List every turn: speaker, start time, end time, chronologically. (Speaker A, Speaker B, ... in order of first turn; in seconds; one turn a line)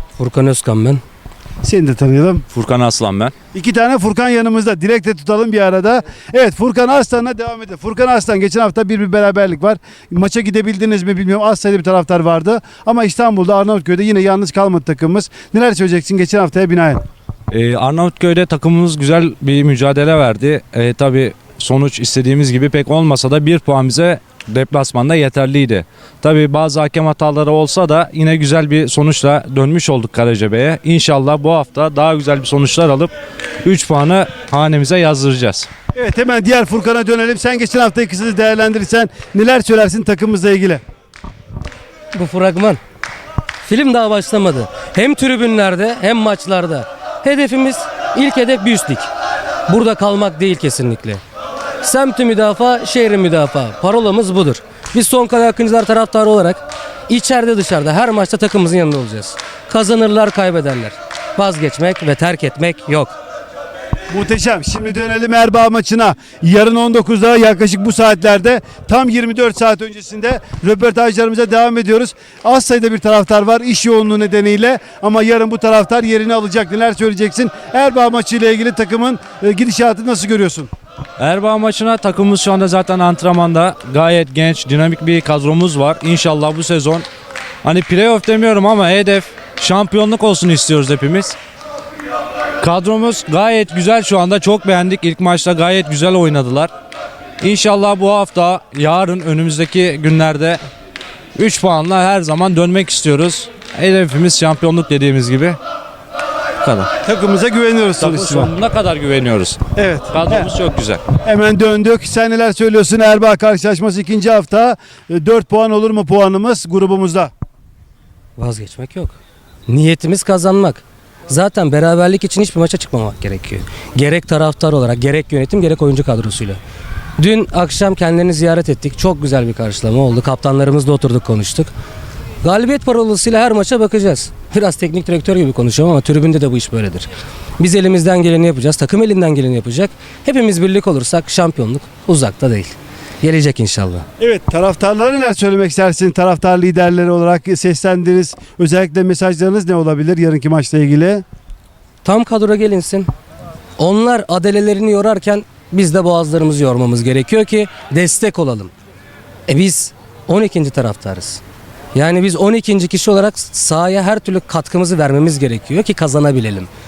Speaker A: 0.2-1.0
Speaker B: 1.6-2.5
Speaker C: 2.5-3.3
Speaker B: 3.5-17.0
Speaker C: 17.5-33.1
Speaker C: 33.6-35.7
Speaker B: 35.9-40.8
Speaker A: 42.1-42.8
Speaker A: 43.6-49.1
Speaker A: 49.7-51.2
Speaker A: 51.8-63.1
Speaker B: 64.1-80.7
Speaker C: 81.2-87.0
Speaker C: 87.6-91.3
Speaker C: 92.6-96.7
Speaker C: 97.4-100.6
Speaker C: 101.3-105.6
Speaker C: 106.6-106.9
Speaker B: 107.0-108.5
Speaker C: 108.0-111.0
Speaker B: 109.7-110.5
Speaker B: 111.2-117.3
Speaker A: 118.4-119.2
Speaker A: 119.7-126.6
Speaker A: 127.2-131.7
Speaker A: 132.4-144.0
Speaker B: 144.2-151.2
Speaker A: 152.0-153.1
Speaker A: 153.8-158.7
Speaker A: 159.5-161.4
Speaker A: 161.9-166.7